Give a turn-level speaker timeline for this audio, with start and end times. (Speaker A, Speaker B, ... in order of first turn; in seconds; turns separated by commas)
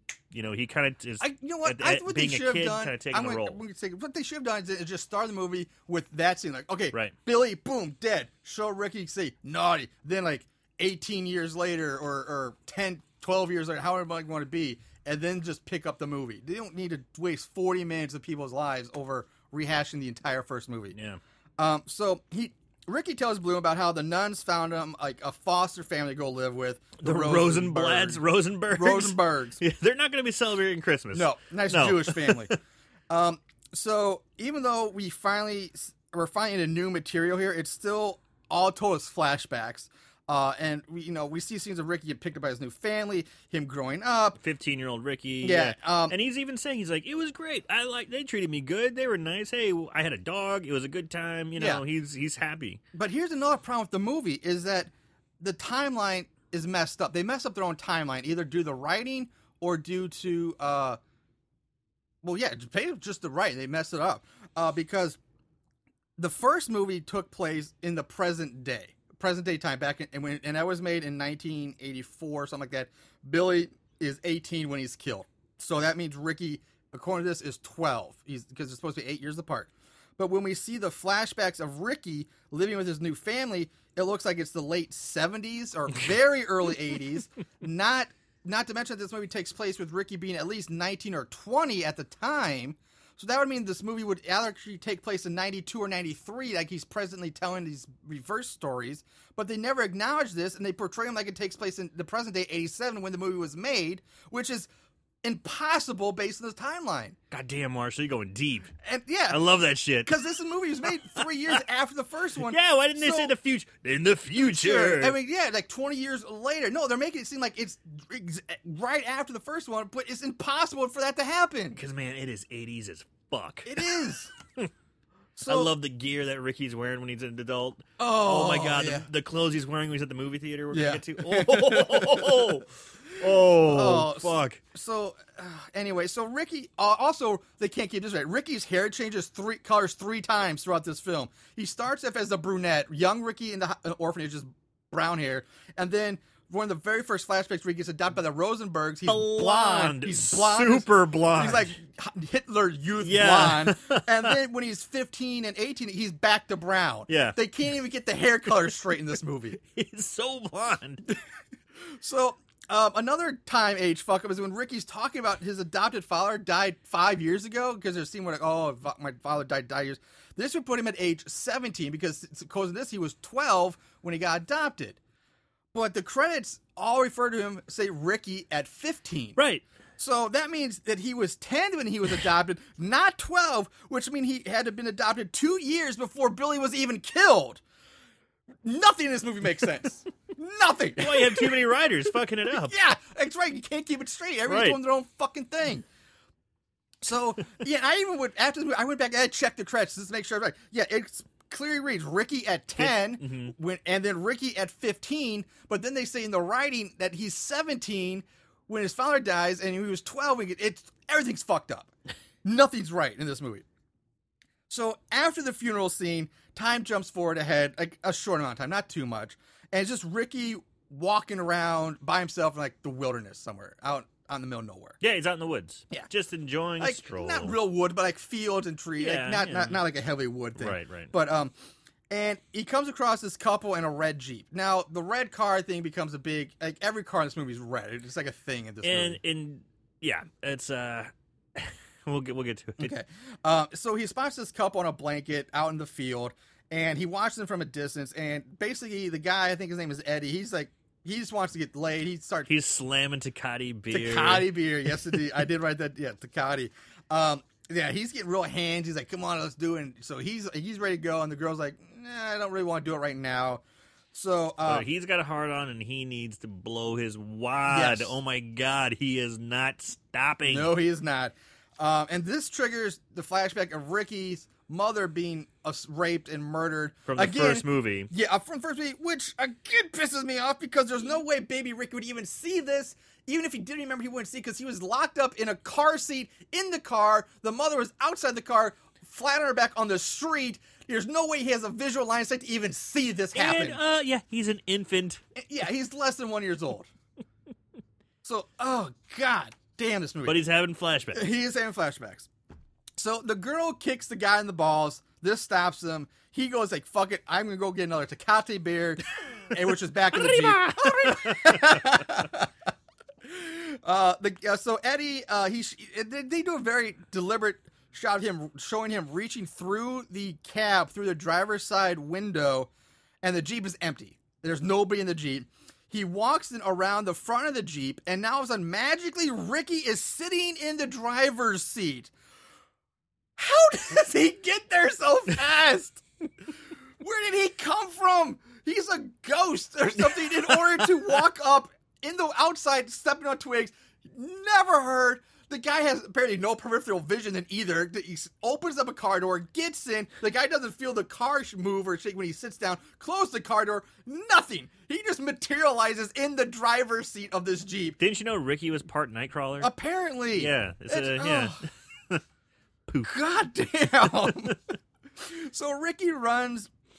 Speaker A: 0.3-3.6, Speaker B: 1.2-20.9, Speaker A: 20.9-21.2, Speaker B: 21.6-29.6, Speaker A: 27.0-32.6, Speaker B: 31.1-32.5, Speaker B: 33.1-44.4, Speaker A: 44.4-52.8, Speaker B: 45.4-46.2, Speaker B: 51.6-51.8, Speaker B: 52.9-61.0, Speaker B: 62.2-65.2, Speaker B: 66.2-104.7, Speaker B: 105.2-107.2, Speaker A: 107.3-108.7, Speaker B: 108.8-109.4, Speaker A: 109.3-110.1, Speaker B: 110.0-113.3, Speaker A: 111.2-111.6, Speaker A: 112.5-115.2, Speaker B: 114.3-121.8, Speaker A: 121.8-123.8, Speaker B: 123.7-124.3, Speaker B: 125.4-125.7, Speaker A: 125.5-134.6, Speaker B: 128.0-129.1, Speaker B: 130.7-132.6, Speaker B: 133.2-159.6, Speaker A: 149.1-151.8, Speaker A: 153.0-154.3, Speaker A: 157.1-157.4, Speaker A: 159.6-161.1, Speaker B: 161.9-175.0, Speaker B: 175.7-179.4, Speaker A: 179.4-179.6, Speaker B: 180.0-187.6, Speaker B: 188.6-191.6, Speaker A: 191.0-192.8, Speaker B: 192.5-195.9, Speaker A: 194.5-194.8, Speaker B: 197.0-211.9, Speaker A: 202.8-203.5, Speaker B: 212.4-213.7, Speaker B: 214.7-225.0, Speaker A: 225.0-227.6, Speaker B: 226.8-231.5, Speaker A: 229.0-229.8, Speaker A: 230.6-231.1, Speaker B: 232.1-239.2, Speaker A: 238.8-242.9, Speaker B: 242.8-252.5, Speaker A: 252.5-254.6, Speaker B: 253.9-264.9, Speaker A: 264.6-270.7, Speaker B: 267.7-268.1, Speaker B: 270.5-293.8, Speaker A: 277.1-278.1, Speaker A: 293.4-295.2, Speaker B: 295.4-296.9, Speaker B: 298.2-300.4, Speaker A: 300.3-301.3, Speaker B: 301.1-302.3, Speaker B: 303.0-312.5, Speaker A: 310.1-312.0, Speaker B: 313.2-322.7, Speaker B: 323.2-332.1, Speaker B: 333.4-336.0, Speaker B: 337.0-358.0, Speaker A: 358.0-359.7, Speaker B: 359.6-361.6, Speaker A: 360.4-361.6, Speaker A: 362.9-363.1, Speaker B: 363.0-364.6, Speaker A: 364.2-364.5, Speaker B: 365.2-366.7